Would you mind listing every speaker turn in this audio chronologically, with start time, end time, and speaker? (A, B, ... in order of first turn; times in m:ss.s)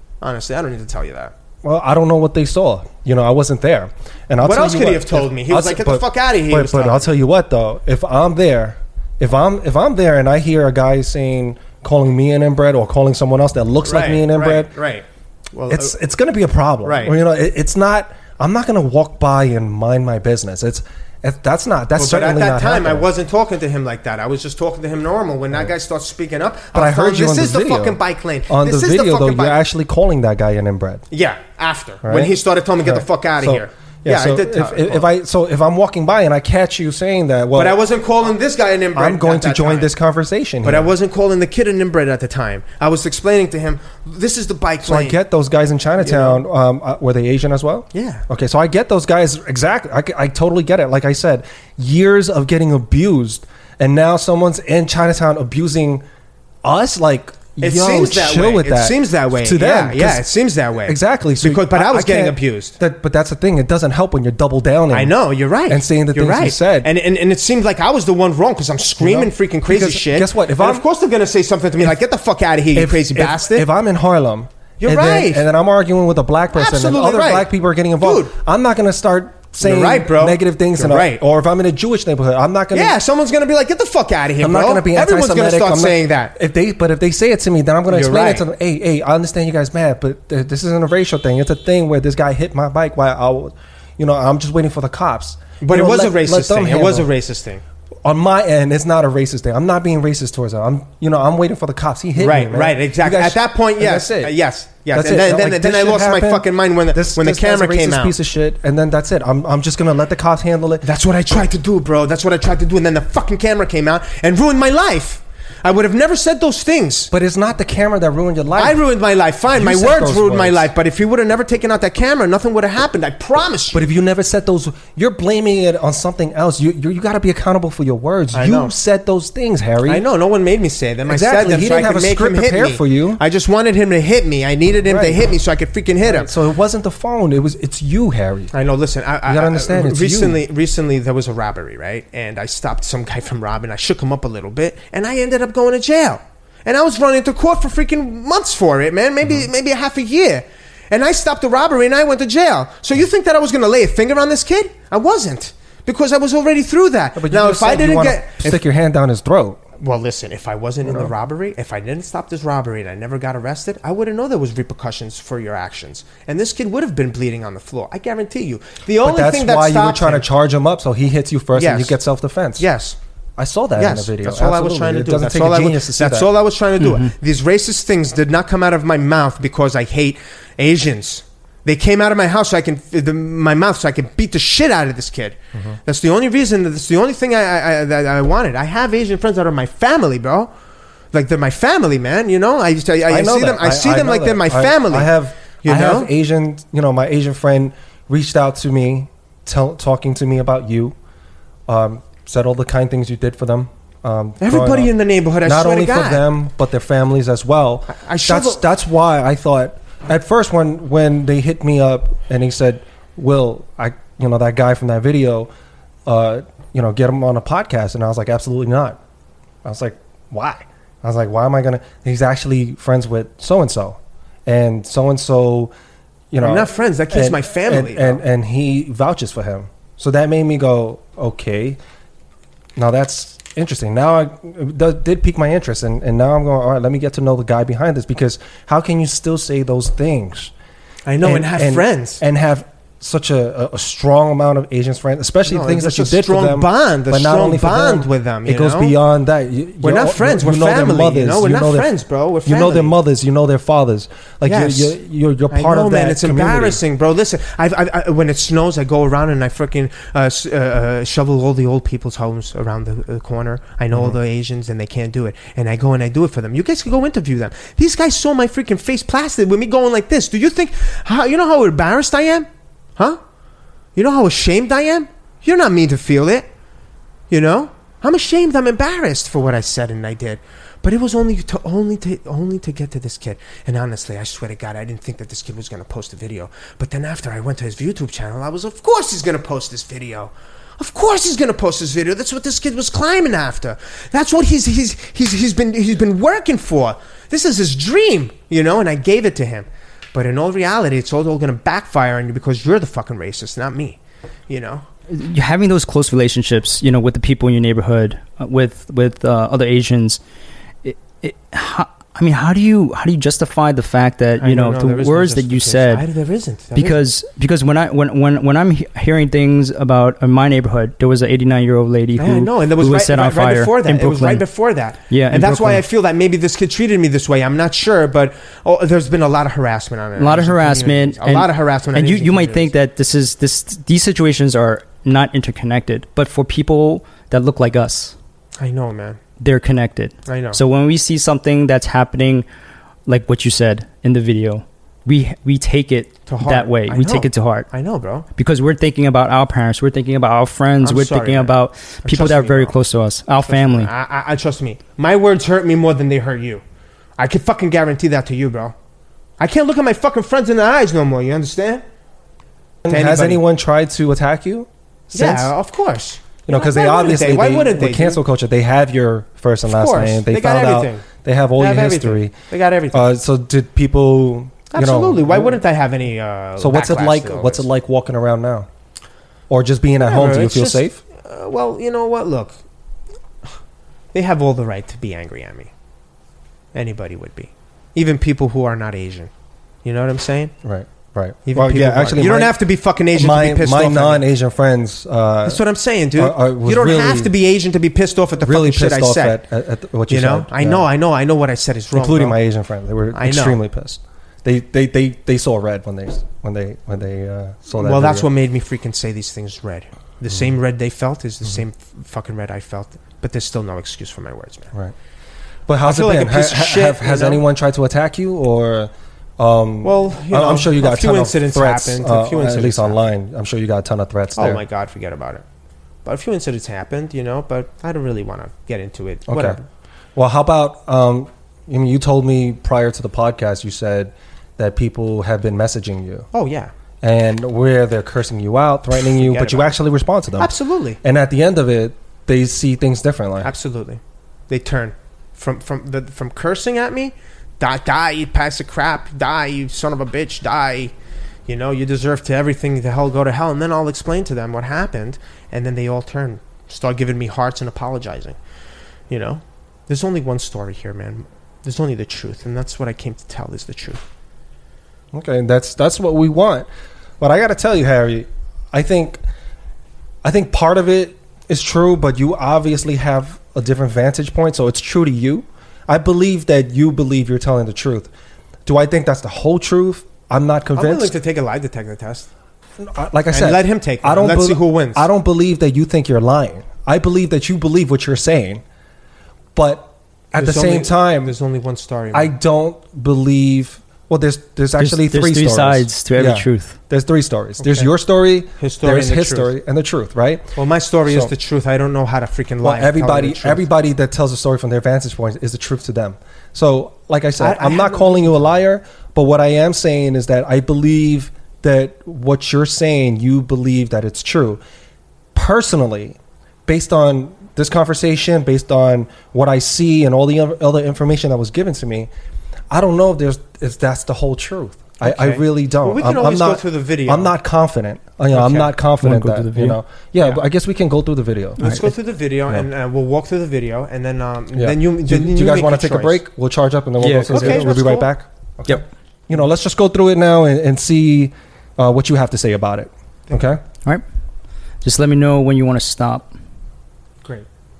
0:00.2-0:01.3 A
0:01.6-0:14.7 B
0:04.4-0:07.1 A
0:13.8-0:16.0 A
0:15.7-0:23.1 B
0:16.8-0:17.2 A
0:22.0-0:29.6 A
0:26.7-0:31.0 B
0:31.1-0:35.1 A
0:32.0-0:37.8 B
0:37.5-0:39.9 A
0:38.9-0:40.9 B
0:40.6-0:45.2 A
0:44.8-0:56.0 B
0:46.0-0:46.4 A
0:47.9-0:48.2 A
0:56.6-1:05.2 B
0:57.6-1:02.7 A
1:04.9-1:13.6 A
1:05.7-1:06.9 B
1:09.0-1:10.8 B
1:12.7-1:23.0 B
1:14.8-1:15.4 A
1:16.5-1:17.5 A
1:18.0-1:18.3 A
1:19.6-1:21.2 A
1:22.7-1:26.3 A
1:24.4-1:37.1 B
1:27.9-1:28.4 A
1:35.6-1:37.6 A
1:38.0-1:44.3 B
1:42.2-1:48.2 A
1:44.9-1:50.9 B
1:50.8-1:57.1 A
1:57.1-1:58.8 B
1:58.6-2:03.8 A
1:59.5-2:00.7 B
2:03.7-2:10.0 B
2:08.3-2:08.7 A
2:09.8-2:16.3 A
2:11.0-2:13.2 B
2:14.8-2:15.2 B
2:16.0-2:18.5 B
2:18.5-2:38.6 A
2:19.2-2:20.4 B
2:37.1-2:39.6 B
2:39.8-2:50.3 A
2:49.0-2:52.7 B
2:51.5-2:52.0 A
2:52.6-2:53.0 A
2:53.4-2:56.3 B
2:53.8-3:10.5 A
2:56.8-2:57.1 C
3:05.5-3:05.8 B
3:11.1-3:16.1 A
3:13.1-3:21.0 B
3:21.7-3:35.5 B
3:24.4-3:26.3 A
3:27.9-3:28.6 A
3:36.0-3:39.0 B
3:39.6-3:45.7 B
3:46.3-3:51.8 B
3:46.4-3:48.2 A
3:52.8-4:00.5 B
4:01.0-4:02.2 A
4:01.2-4:11.9 B
4:05.4-4:09.0 A
4:09.8-4:13.0 A
4:12.4-4:16.8 B
4:14.4-4:15.0 A
4:15.5-4:33.2 A
4:34.0-4:36.5 A
4:37.3-5:04.0 A
5:04.5-5:04.8 A
5:05.1-5:10.2 C
5:10.8-5:16.0 C
5:14.4-5:17.0 A
5:16.7-5:24.4 C
5:22.2-5:32.7 A
5:25.1-5:25.8 C
5:30.2-5:38.1 C
5:38.6-5:39.2 A
5:39.4-5:42.4 C
5:40.3-5:40.6 A
5:43.1-5:47.7 C
5:46.3-5:48.2 A
5:48.4-5:53.9 C
5:50.8-5:52.8 A
5:53.4-5:56.6 A
5:57.2-5:58.7 A
5:59.4-6:01.8 A
6:02.8-6:05.5 B
6:02.9-6:03.4 A
6:05.1-6:08.2 A
6:06.5-6:12.3 B
6:09.6-6:11.0 A
6:11.6-6:13.1 A
6:12.9-6:15.6 B
6:14.7-6:17.6 A
6:16.6-6:18.7 B
6:19.5-6:21.0 B
6:20.0-6:22.6 A
6:24.1-6:25.7 A
6:26.7-6:29.3 A
6:29.8-6:30.5 A
6:30.6-6:32.6 B
6:31.4-6:34.2 A
6:33.1-6:35.6 B
6:35.4-6:39.4 A
6:36.2-6:37.3 B
6:38.4-6:40.9 B
6:40.1-6:42.4 A
6:41.9-6:48.3 B
6:43.1-6:43.6 A
6:47.8-6:54.7 A
6:55.7-7:04.6 B
6:55.8-6:57.4 A
6:59.8-7:03.0 A
7:04.4-7:05.4 A
7:06.0-7:09.6 A
7:09.3-7:09.6 B
7:10.1-7:16.3 B
7:16.3-7:16.7 A
7:17.0-7:23.5 B
7:19.1-7:19.7 A
7:20.4-7:21.0 A
7:23.4-7:30.9 A
7:31.5-7:38.4 A
7:39.1-7:44.0 A
7:45.1-7:46.7 B
7:47.2-7:49.2 B
7:50.2-7:58.1 B
7:58.6-8:01.1 B
8:00.7-8:02.3 A
8:02.8-8:08.6 B
8:03.3-8:05.1 A
8:09.5-8:11.3 B
8:10.3-8:12.3 A
8:12.1-8:20.5 B
8:14.8-8:16.8 C
8:17.6-8:17.9 A
8:18.6-8:19.5 A
8:20.6-8:23.6 A
8:21.0-8:21.3 B
8:22.6-8:34.6 B
8:27.4-8:28.5 A
8:35.3-8:42.1 B
8:42.7-8:51.7 B
8:45.0-8:47.3 A
8:48.4-8:49.8 C
8:51.6-8:56.2 A
8:51.6-8:51.9 C
8:54.5-9:03.6 B
8:57.0-8:57.7 C
8:57.3-8:58.1 A
9:04.8-9:06.3 C